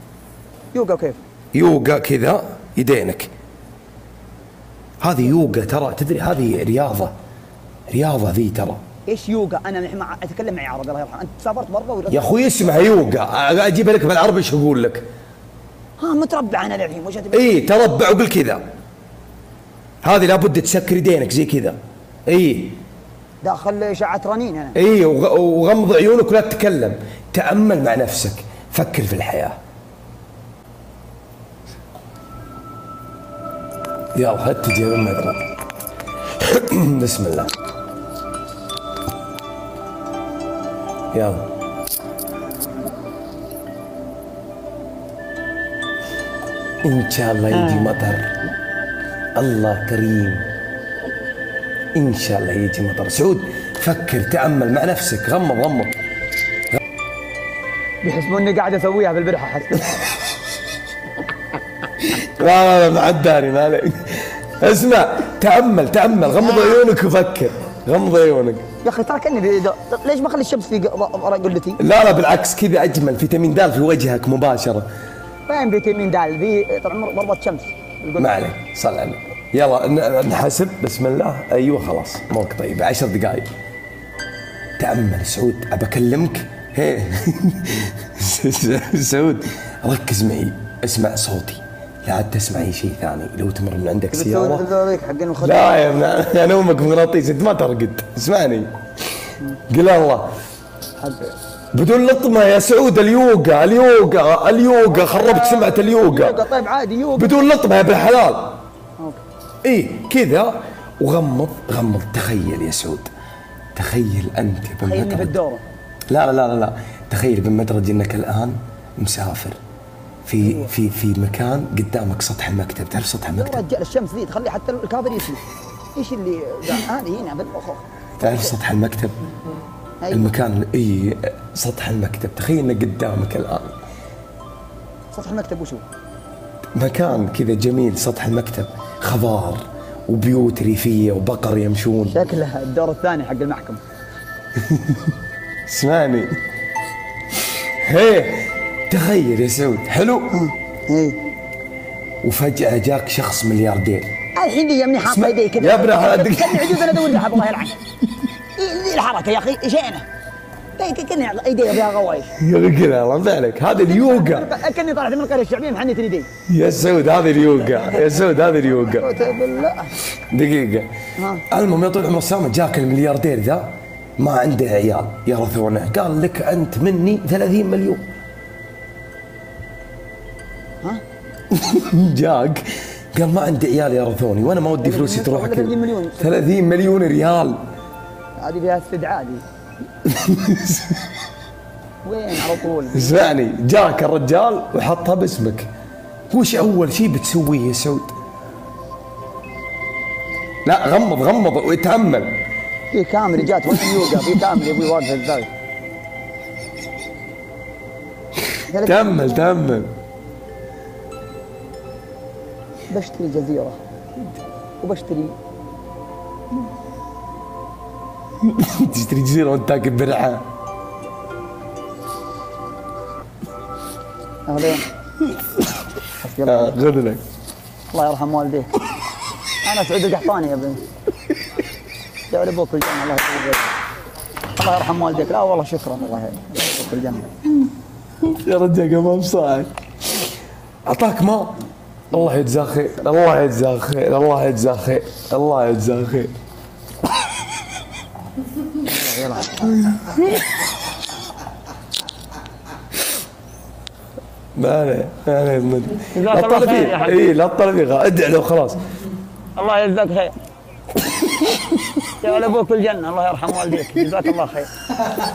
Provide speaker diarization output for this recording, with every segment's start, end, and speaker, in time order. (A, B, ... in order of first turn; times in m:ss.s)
0:00.7-0:01.2 A
0:01.5-0:03.3 B
0:05.0-0:07.1 B
0:07.9-0:08.8 B
0:09.1-0:12.2 A
0:12.1-0:15.0 B
0:16.0-0:17.6 A
0:17.3-0:18.6 B
0:20.0-0:22.8 B
0:23.4-0:24.8 A
0:24.7-0:29.6 B
0:34.1-0:35.4 B
0:36.4-0:37.5 B
0:41.1-0:41.5 B
0:46.8-0:48.3 B
0:49.3-0:50.4 B
0:51.9-0:55.9 B
0:58.0-1:00.1 A
1:02.1-1:08.6 B
1:06.4-1:06.8 A
1:08.8-1:11.8 A
1:11.8-1:14.9 B
1:15.5-1:18.3 A
1:18.2-1:23.5 B
1:24.8-1:34.6 B
1:34.1-1:35.9 A
1:35.4-1:38.7 B
1:39.7-1:40.3 B
1:41.0-1:41.3 A
1:41.7-1:46.4 B
1:44.9-1:47.5 A
1:47.2-1:48.6 B
1:49.6-1:53.1 B
1:53.7-1:55.3 B
1:54.8-1:55.6 A
1:56.1-1:59.6 B
2:00.2-2:03.6 B
2:00.4-2:00.7 A
2:03.3-2:05.4 A
2:05.9-2:08.6 A
2:08.2-2:09.1 B
2:10.0-2:10.3 A
2:10.1-2:13.8 B
2:15.1-2:15.8 A
2:16.7-2:22.2 B
2:22.1-2:23.8 A
2:24.6-2:25.1 B
2:25.7-2:26.3 B
2:27.8-2:30.4 B
2:30.3-2:31.2 A
2:32.2-2:34.1 B
2:34.4-2:37.8 A
2:35.0-2:37.3 B
2:38.6-2:40.0 A
2:40.8-2:42.3 A
2:42.4-2:44.5 B
2:43.7-2:46.3 A
2:46.5-2:49.1 B
2:47.8-2:49.9 A
2:50.3-2:50.9 B
2:51.2-2:51.4 A
2:51.5-2:58.0 B
3:01.5-3:07.6 B
3:04.8-3:06.3 A
3:08.4-3:09.4 A
3:10.0-3:11.0 B
3:12.0-3:13.2 A
3:12.9-3:15.7 B
3:16.3-3:18.1 B
3:20.6-3:22.4 B
3:22.9-3:25.5 A
3:28.7-3:29.5 A
3:28.8-3:29.9 B
3:32.9-3:33.8 A
3:34.8-3:35.3 A
3:38.4-3:40.4 B
3:44.5-3:44.8 A
3:46.2-3:46.8 A
3:46.4-3:47.2 B
3:47.9-3:48.7 A
3:49.6-3:50.8 A
3:52.3-3:53.7 A
3:54.6-3:57.2 A
3:58.2-3:59.7 B
4:00.8-4:01.6 B
4:02.1-4:06.3 B
4:08.8-4:09.7 A
4:09.7-4:10.4 B
4:14.5-4:18.8 B
4:16.1-4:17.2 A
4:19.6-4:20.3 A
4:22.2-4:24.7 A